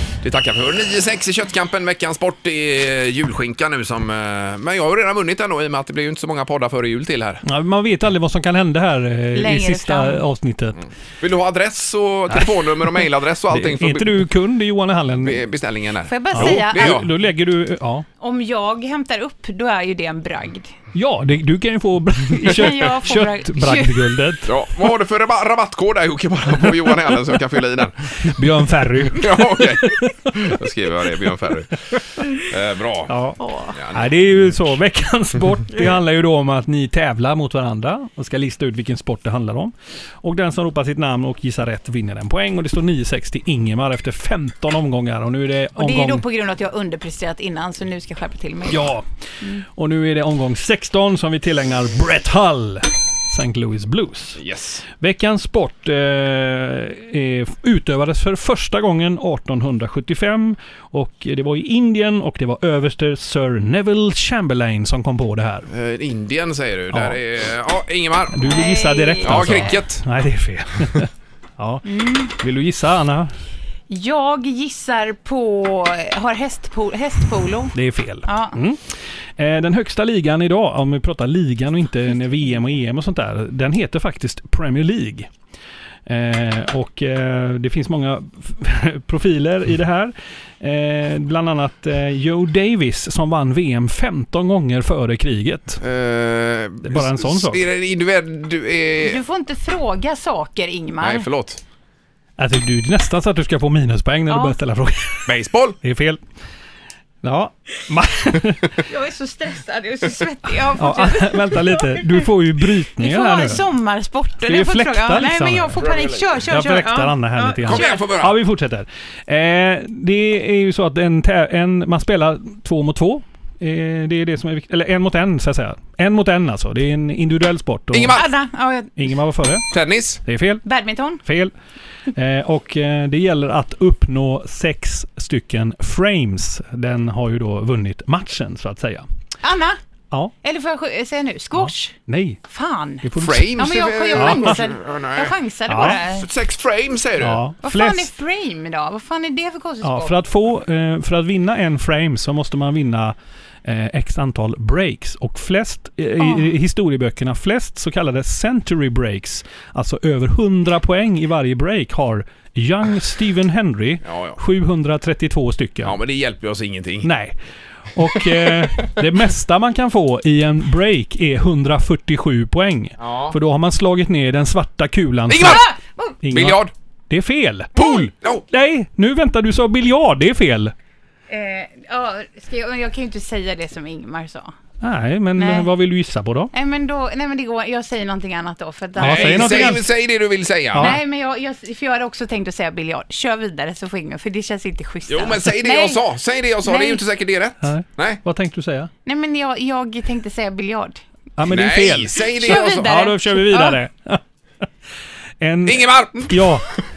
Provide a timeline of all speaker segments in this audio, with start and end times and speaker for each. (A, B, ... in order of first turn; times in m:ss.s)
0:00.2-0:07.4 A
0:07.4-0:10.8 B
0:09.3-0:10.2 C
0:10.8-0:14.2 A
0:13.5-0:15.4 B
0:15.2-0:17.1 A
0:16.1-0:17.0 C
0:16.3-0:18.0 B
0:18.2-0:20.7 C
0:20.9-0:24.5 B
0:22.4-0:24.2 C
0:24.4-0:28.3 A
0:28.2-0:30.5 B
0:29.0-0:33.1 A
0:33.1-0:33.4 B
0:33.4-0:33.8 C
0:33.7-0:34.2 A
0:33.9-0:46.2 B
0:45.8-0:48.8 C
0:48.7-0:49.0 B
0:49.6-0:54.4 B
0:54.4-0:54.8 A
0:55.0-1:05.7 B
1:05.7-1:08.6 A
1:06.9-1:07.2 B
1:08.3-1:13.3 B
1:08.5-1:09.8 C
1:09.2-1:10.0 A
1:11.8-1:12.3 C
1:13.9-1:17.7 C
1:17.7-1:25.3 B
1:18.2-1:18.6 C
1:26.1-1:35.8 B
1:35.8-1:39.2 A
1:36.8-1:37.7 B
1:39.0-1:41.2 C
1:41.0-1:41.6 A
1:42.4-1:46.2 B
1:44.3-1:44.6 C
1:45.3-1:45.8 A
1:47.2-1:48.8 B
1:48.8-1:52.1 C
1:50.8-1:53.6 B
1:53.0-1:58.0 C
1:54.4-1:55.9 B
1:55.8-1:56.3 A
1:56.4-2:08.2 B
1:57.6-1:58.4 A
2:07.9-2:08.2 A
2:08.1-2:08.9 C
2:09.0-2:09.7 B
2:09.7-2:10.2 A
2:10.2-2:10.6 B
2:10.6-2:11.2 C
2:11.2-2:11.5 B
2:12.1-2:19.0 B
2:19.4-2:19.8 C
2:20.4-2:26.3 C
2:21.6-2:22.4 B
2:23.0-2:23.6 B
2:23.2-2:27.4 A
2:24.1-2:24.6 B
2:25.7-2:26.0 B
2:27.2-2:28.1 B
2:27.6-2:30.1 C
2:29.8-2:46.0 B
2:44.0-2:44.4 A
2:45.8-2:47.1 A
2:47.0-2:47.4 B
2:47.9-2:55.7 B
2:53.0-2:53.3 A
2:55.3-2:55.7 A
2:55.4-2:56.1 C
2:56.2-2:57.7 B
2:56.3-2:56.7 A
2:57.7-2:58.4 A
2:58.5-3:00.7 B
3:01.3-3:04.5 C
3:04.8-3:06.5 B
3:05.4-3:05.7 C
3:06.5-3:09.8 C
3:09.0-3:09.8 B
3:09.0-3:11.0 A
3:10.8-3:16.0 C
3:15.1-3:18.2 A
3:16.6-3:17.0 C
3:17.6-3:18.9 B
3:19.0-3:21.0 C
3:21.4-3:24.2 B
3:21.5-3:22.9 A
3:22.4-3:23.8 C
3:25.4-3:26.6 B
3:25.6-3:26.5 A